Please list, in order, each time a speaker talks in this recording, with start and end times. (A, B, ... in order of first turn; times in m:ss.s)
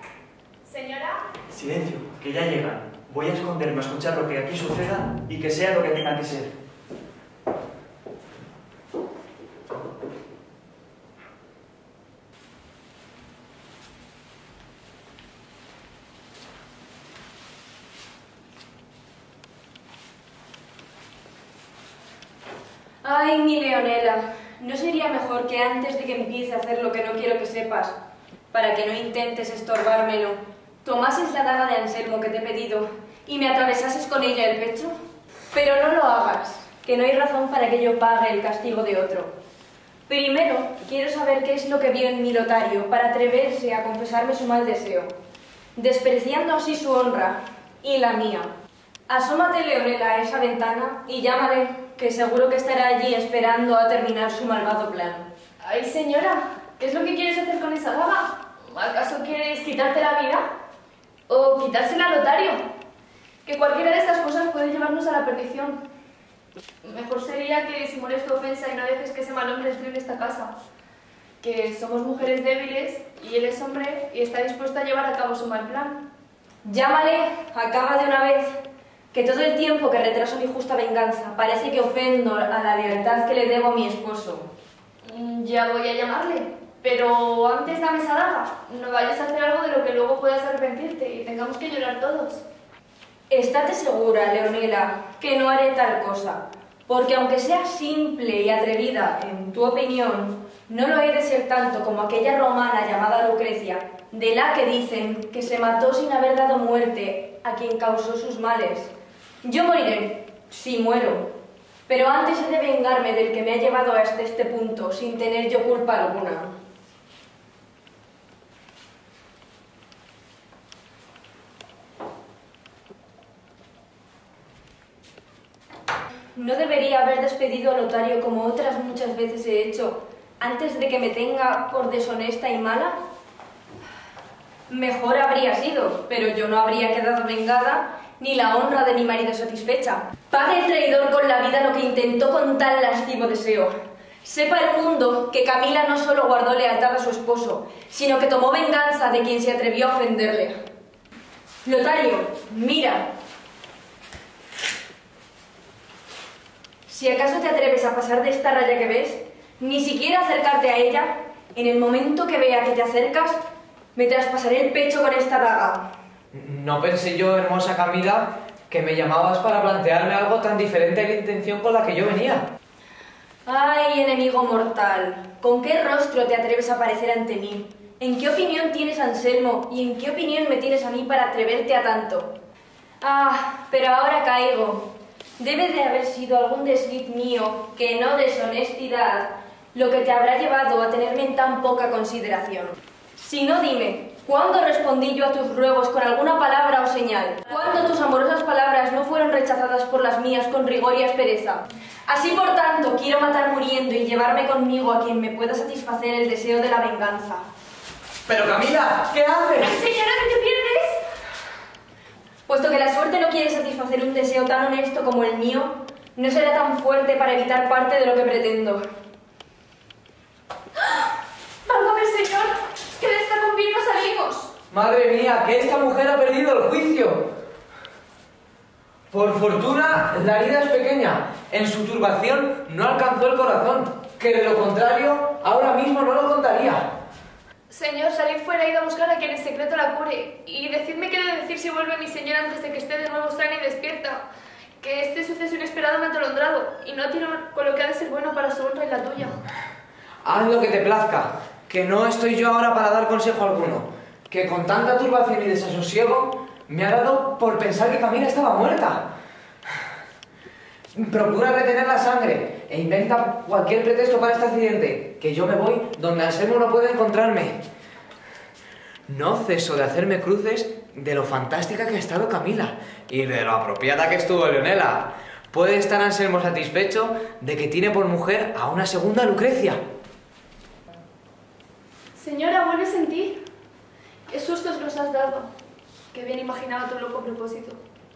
0:00.6-0:01.2 A
0:01.5-0:06.5 B
0:23.0-0:28.0 C
0:28.5-0:35.0 C
0:35.5-0:39.4 C
0:40.1-0:45.1 C
0:45.8-0:48.5 C
0:49.1-0:55.3 C
0:55.6-1:00.4 A
1:01.3-1:02.6 A
1:03.4-1:05.8 A
1:06.8-1:10.5 A
1:11.4-1:16.1 A
1:16.6-1:24.5 C
1:25.0-1:32.4 A
1:33.3-1:48.9 C
1:49.4-1:51.4 C
1:51.9-1:56.6 C
2:06.3-2:13.0 C
2:14.7-2:30.6 C
2:31.6-2:33.1 C
2:36.9-2:45.9 C
2:46.3-2:52.5 D
2:53.4-3:02.4 C
3:03.0-3:27.5 C
3:28.3-3:29.8 D
3:29.7-3:31.0 A
3:32.5-3:38.8 C
3:41.7-3:44.5 A
3:44.7-3:47.3 D
3:49.1-3:57.0 D
3:57.7-4:04.3 A
4:04.8-4:09.4 A
4:10.2-4:19.1 D
4:20.9-4:27.6 D
4:29.1-4:39.8 D
4:42.2-4:43.4 A
4:44.3-4:45.5 A
4:46.1-4:47.8 A